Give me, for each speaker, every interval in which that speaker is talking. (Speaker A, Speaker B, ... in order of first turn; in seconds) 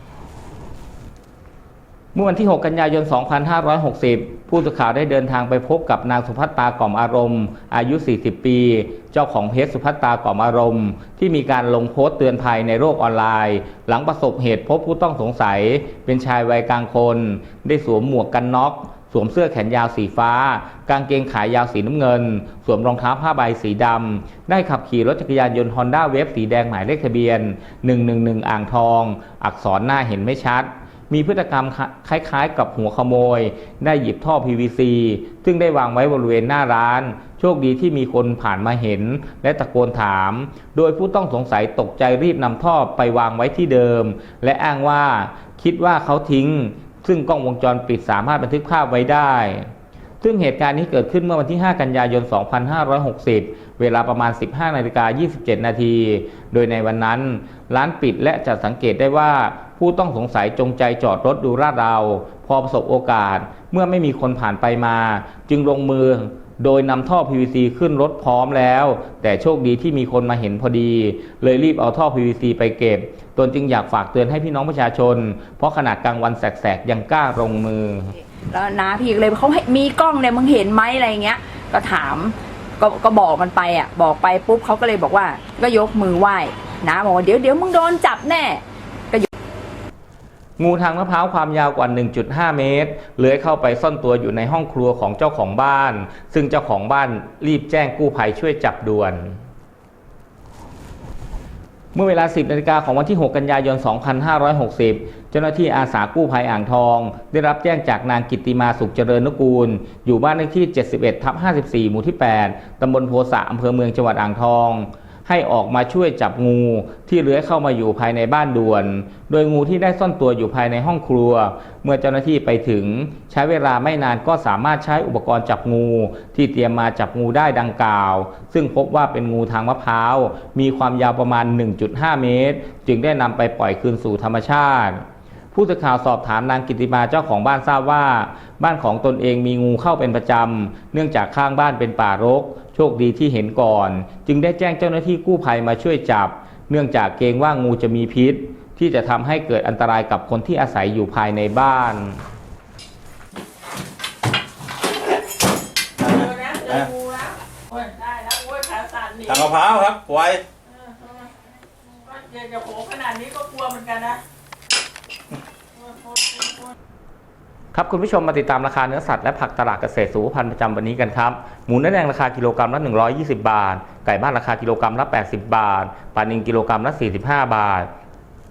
Speaker A: 2.1-78.1, 90.6-99.4, 101.9-152.2, 167.7-177.9
Speaker B: 78.5-89.3
Speaker C: 156.0-156.9, 159.3-160.4
Speaker D: 156.0-159.5, 160.7-164.2, 165.8-166.7